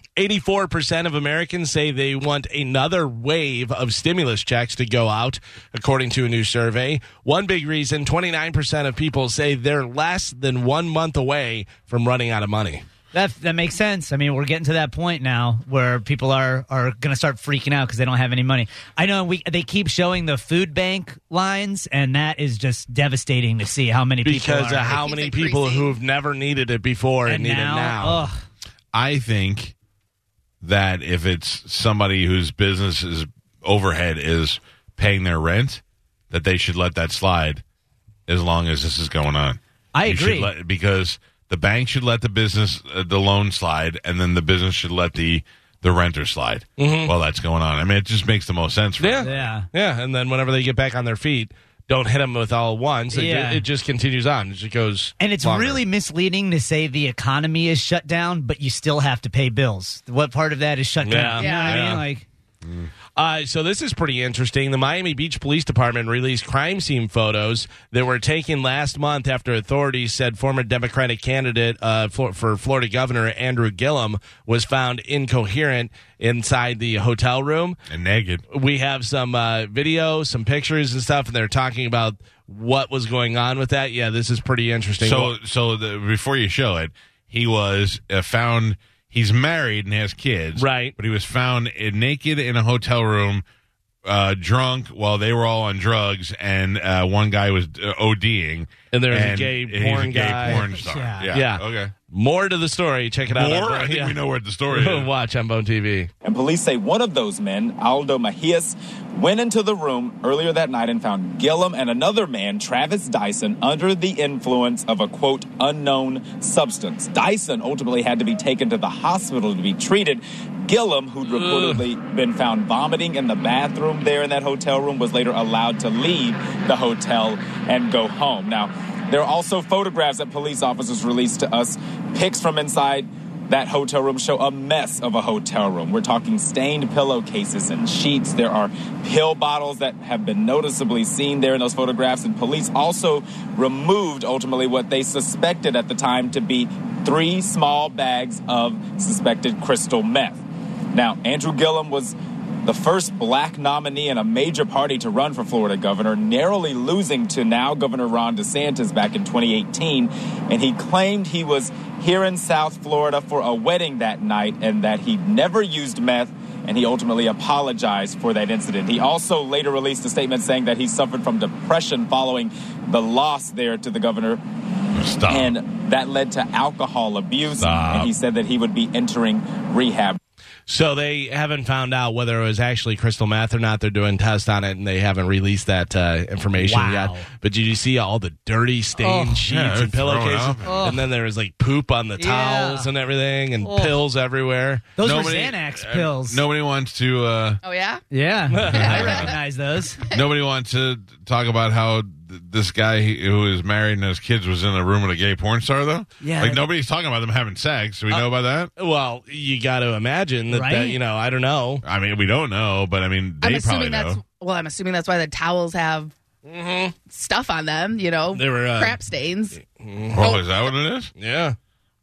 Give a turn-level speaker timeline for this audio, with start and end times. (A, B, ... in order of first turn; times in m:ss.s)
0:00.2-0:12.8 A
0:13.1-0:25.0 B
0:24.2-0:28.3 A
0:24.9-0:26.0 C
0:27.3-0:28.4 B
0:28.9-0:29.7 D
0:30.6-0:37.6 D
0:38.3-0:49.4 D
0:39.9-0:40.5 B
0:46.8-0:47.1 A
0:49.0-0:55.8 A
0:49.2-0:49.7 B
0:53.1-0:53.6 B
0:55.2-1:02.2 B
1:01.0-1:02.0 A
1:01.4-1:01.8 C
1:02.6-1:02.9 D
1:03.2-1:17.8 A
1:17.9-1:18.4 D
1:18.5-1:25.3 A
1:25.0-1:33.4 D
1:30.6-1:31.0 A
1:34.0-1:41.9 D
1:38.9-1:40.8 A
1:40.4-1:41.3 B
1:41.3-1:44.2 A
1:43.3-1:45.1 D
1:44.7-1:46.1 A
1:46.2-2:54.4 E
2:01.3-2:01.8 A
2:54.9-2:55.5 D
2:55.3-3:00.2 E
2:57.6-2:58.1 D
3:00.7-3:14.8 A
3:06.6-3:07.3 B
3:09.0-3:09.4 B
3:09.5-3:10.8 D
3:10.6-3:11.0 B
3:12.2-3:12.9 B
3:13.6-3:14.0 B
3:15.0-3:16.4 B
3:15.0-3:17.6 D
3:17.6-3:18.0 C
3:18.1-3:20.0 B
3:18.5-3:19.2 A
3:18.7-3:19.4 C
3:18.7-3:19.3 D
3:20.1-3:28.7 D
3:26.2-3:26.6 B
3:28.8-3:31.8 A
3:30.5-3:31.0 B
3:31.8-3:34.2 D
3:33.4-3:36.1 C
3:36.4-3:36.9 A
3:37.1-3:39.6 C
3:38.3-3:39.0 A
3:39.6-3:40.2 A
3:40.1-3:41.1 D
3:41.2-3:41.6 A